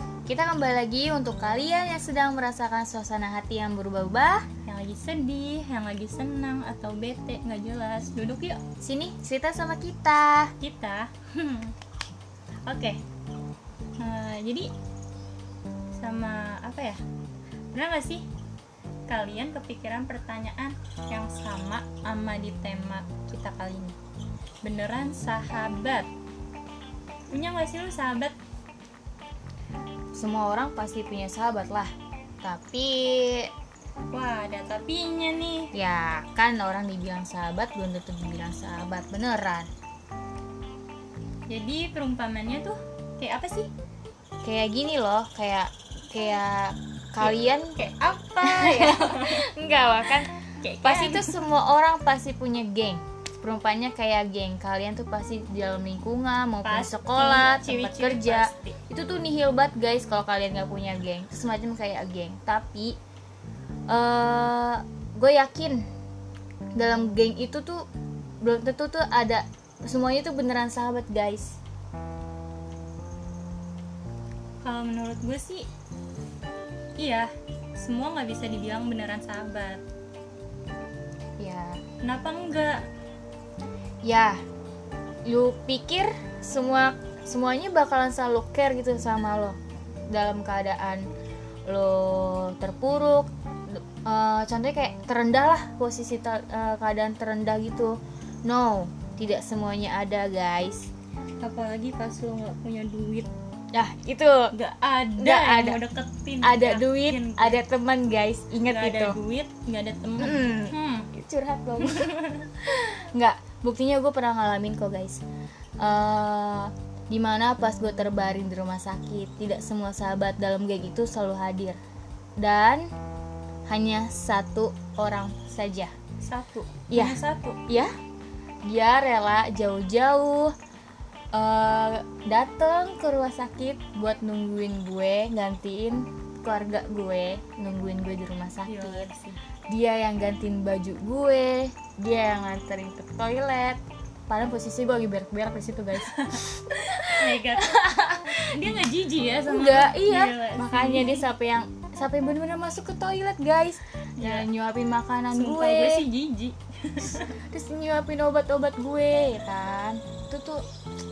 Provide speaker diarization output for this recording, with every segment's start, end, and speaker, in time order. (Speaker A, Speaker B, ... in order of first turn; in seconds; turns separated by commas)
Speaker A: 0.3-4.5, Speaker B: 4.7-8.6, Speaker A: 8.8-10.5, Speaker B: 10.6-11.7, Speaker B: 12.7-13.0, Speaker B: 14.0-14.7, Speaker B: 16.0-17.0, Speaker B: 17.7-18.3, Speaker B: 19.1-24.0, Speaker B: 24.6-26.1, Speaker B: 27.3-28.4, Speaker A: 30.1-31.9, Speaker A: 32.4-33.5, Speaker B: 34.1-35.7, Speaker A: 35.7-39.7, Speaker B: 41.5-43.7, Speaker A: 44.4-47.8, Speaker B: 47.2-49.5, Speaker A: 48.4-63.0, Speaker B: 50.6-51.4, Speaker B: 56.6-58.8, Speaker A: 63.9-65.9, Speaker A: 66.8-67.9, Speaker A: 68.4-71.6, Speaker B: 74.6-75.7, Speaker B: 77.0-79.8, Speaker A: 81.4-81.8, Speaker B: 82.0-82.9, Speaker A: 84.0-84.4, Speaker A: 85.2-91.1, Speaker A: 91.7-100.9, Speaker B: 101.4-103.3, Speaker A: 103.7-104.5, Speaker B: 104.5-107.6, Speaker A: 105.2-105.8, Speaker A: 106.4-109.2, Speaker B: 108.7-111.1, Speaker A: 110.2-115.2, Speaker B: 111.8-112.5, Speaker A: 115.8-121.8, Speaker A: 122.4-122.9, Speaker A: 123.7-125.9, Speaker B: 126.2-127.6, Speaker A: 126.9-127.9, Speaker A: 128.7-130.6, Speaker A: 131.3-139.1, Speaker B: 138.7-139.4, Speaker A: 139.7-148.8, Speaker B: 146.0-151.3, Speaker A: 149.5-156.1, Speaker B: 154.2-154.5, Speaker B: 155.3-157.4, Speaker A: 157.2-160.6